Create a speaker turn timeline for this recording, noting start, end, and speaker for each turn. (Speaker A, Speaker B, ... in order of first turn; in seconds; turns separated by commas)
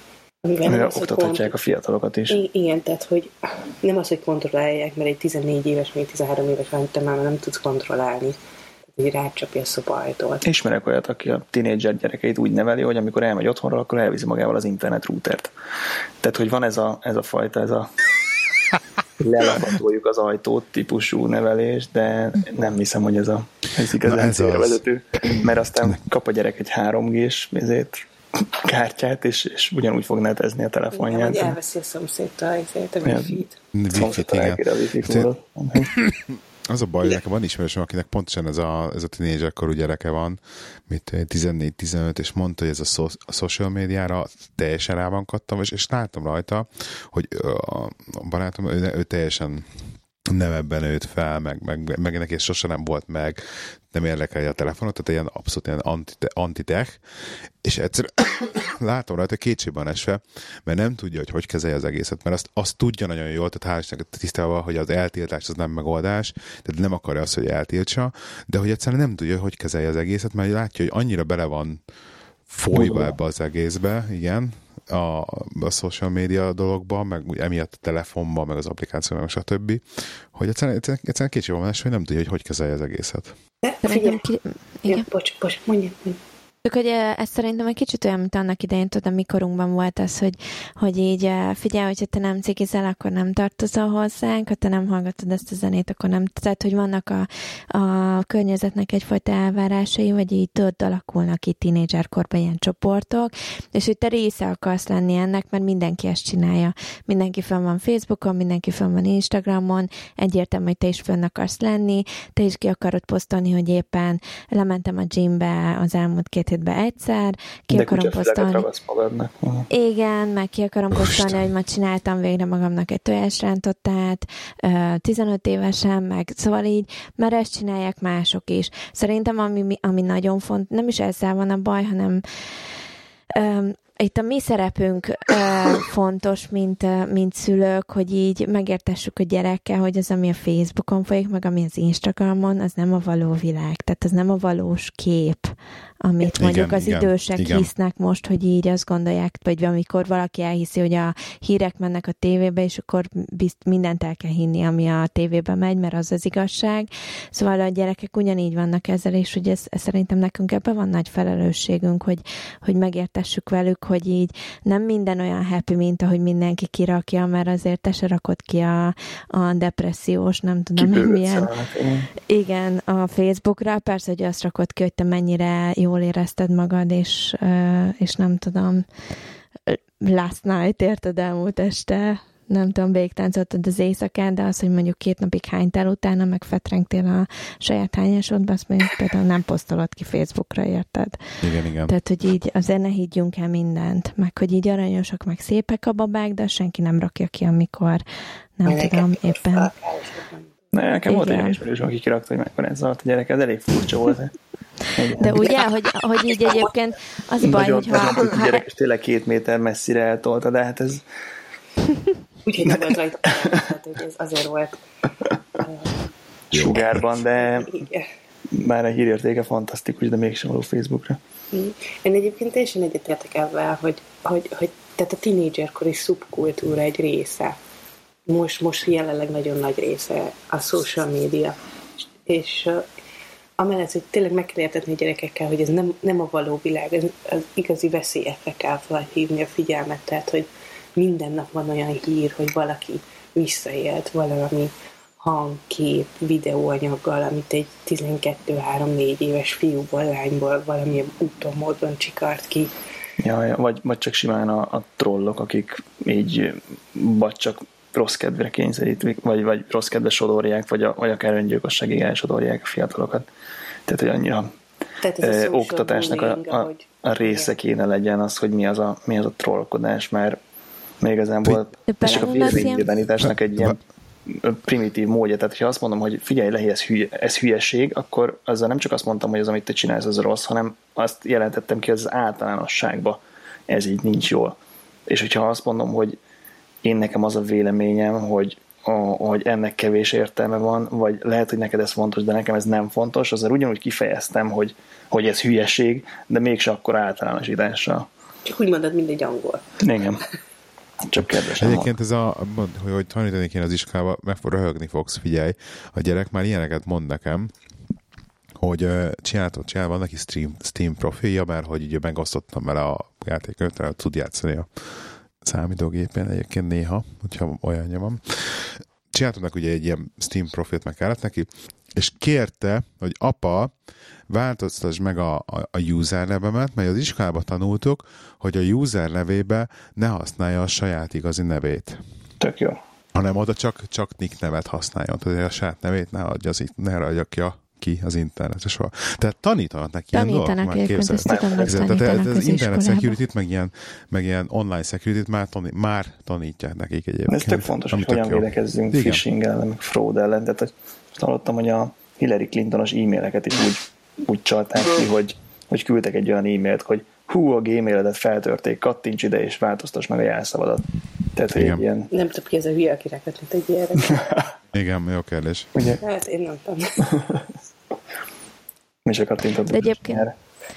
Speaker A: 0.4-1.6, Speaker B: 0.6-2.4, Speaker A: 2.3-10.4, Speaker B: 10.4-15.5, Speaker B: 16.2-17.9, Speaker B: 19.2-28.0, Speaker C: 24.0-24.8, Speaker B: 28.6-31.6, Speaker A: 30.9-33.6, Speaker B: 33.0-33.4, Speaker C: 33.8-35.3, Speaker B: 33.9-35.9, Speaker C: 35.8-49.7, Speaker C: 50.3-57.1, Speaker C: 57.6-71.8, Speaker C: 72.5-83.3, Speaker B: 72.7-73.2, Speaker A: 83.6-84.2, Speaker D: 83.8-85.1, Speaker A: 84.8-86.2, Speaker D: 86.6-118.7, Speaker B: 117.7-119.7, Speaker D: 119.7-132.2, Speaker C: 120.9-121.4, Speaker D: 133.3-145.5, Speaker D: 146.0-171.5, Speaker C: 146.4-147.7, Speaker B: 170.8-172.1, Speaker D: 172.3-178.8, Speaker D: 179.7-191.2, Speaker C: 191.4-191.9, Speaker D: 191.9-198.0, Speaker D: 198.6-199.7, Speaker A: 198.7-200.6, Speaker B: 200.7-204.3, Speaker D: 201.1-201.6, Speaker B: 204.9-205.5, Speaker D: 205.2-208.6, Speaker A: 206.2-206.7, Speaker B: 207.4-211.0, Speaker A: 212.4-214.8, Speaker A: 215.6-218.1, Speaker B: 216.5-217.7, Speaker C: 216.5-216.8, Speaker B: 218.5-221.2, Speaker A: 221.5-227.6, Speaker A: 228.3-232.8, Speaker A: 233.6-252.7, Speaker B: 253.2-263.3, Speaker B: 263.9-264.5, Speaker A: 265.0-267.6, Speaker B: 265.2-270.4, Speaker B: 271.0-284.6, Speaker D: 271.9-272.9, Speaker C: 273.2-273.8, Speaker B: 285.1-286.2, Speaker B: 286.8-298.1, Speaker A: 298.4-299.8, Speaker B: 299.8-300.2, Speaker B: 301.1-301.9, Speaker C: 301.6-307.5, Speaker C: 308.6-314.8, Speaker C: 315.4-323.7, Speaker C: 324.3-332.0, Speaker B: 332.4-332.8, Speaker C: 333.1-349.2, Speaker D: 340.1-343.2, Speaker B: 341.3-341.9, Speaker B: 347.3-362.1, Speaker C: 361.5-361.9, Speaker A: 362.1-364.3, Speaker C: 364.7-365.7, Speaker B: 365.8-366.0, Speaker A: 366.0-367.2, Speaker B: 369.1-370.3, Speaker D: 369.7-370.3